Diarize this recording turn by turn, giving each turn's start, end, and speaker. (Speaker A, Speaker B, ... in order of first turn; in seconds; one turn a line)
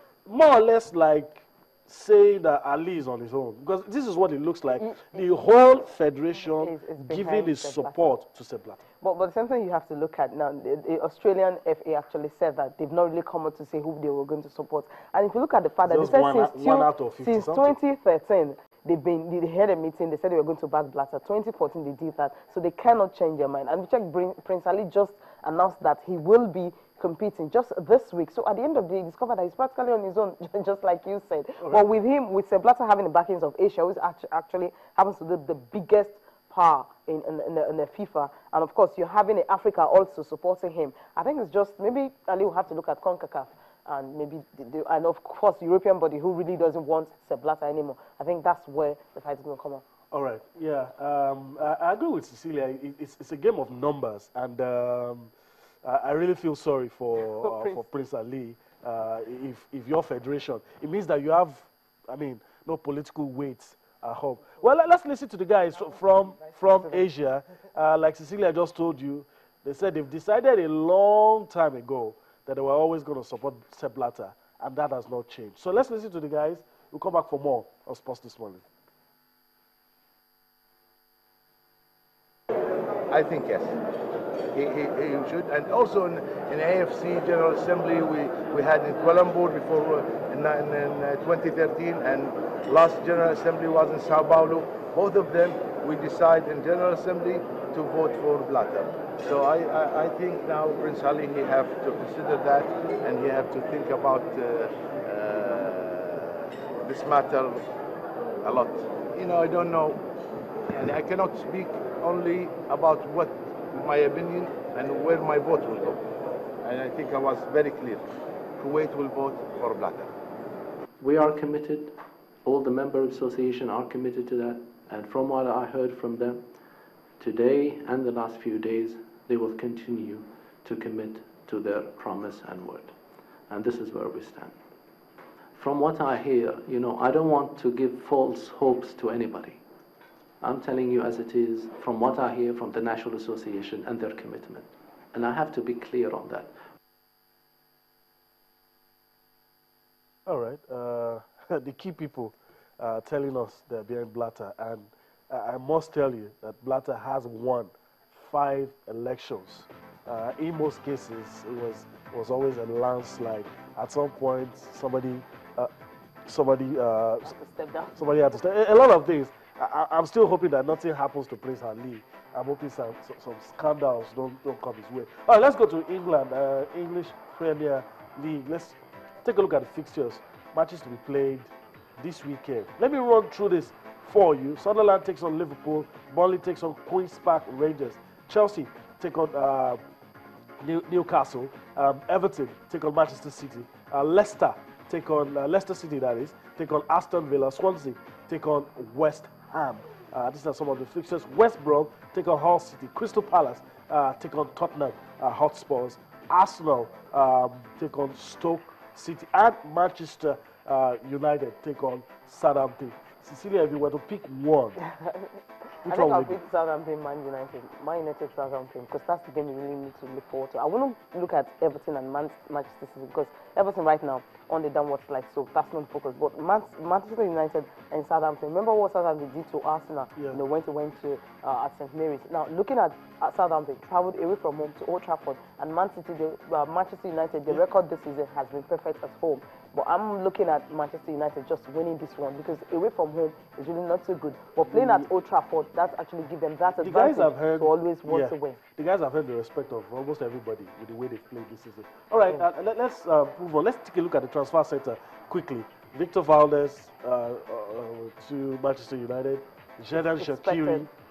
Speaker A: 0.2-8.8
Speaker B: 4.8-5.3
Speaker B: 6.5-8.1
Speaker B: 9.0-49.8
Speaker A: 15.8-17.8
Speaker A: 31.6-31.9
Speaker A: 50.1-55.3
Speaker A: 55.8-78.6
Speaker B: 57.4-57.8
Speaker C: 83.1-83.8
Speaker C: 84.5-107.6
Speaker C: 108.4-110.0
Speaker C: 110.7-116.0
Speaker C: 116.6-118.0
Speaker C: 118.6-120.1
Speaker D: 121.0-126.4
Speaker D: 127.2-132.9
Speaker D: 133.5-134.6
Speaker D: 135.5-139.6
Speaker D: 140.4-146.5
Speaker A: 150.2-165.7
Speaker A: 166.3-167.3
Speaker B: 167.2-168.1
Speaker A: 167.9-189.8
Speaker A: 190.6-214.8
Speaker B: 214.8-248.6
Speaker A: 215.8-216.4
Speaker A: 244.7-245.1
Speaker A: 246.7-260.9
Speaker B: 260.1-260.8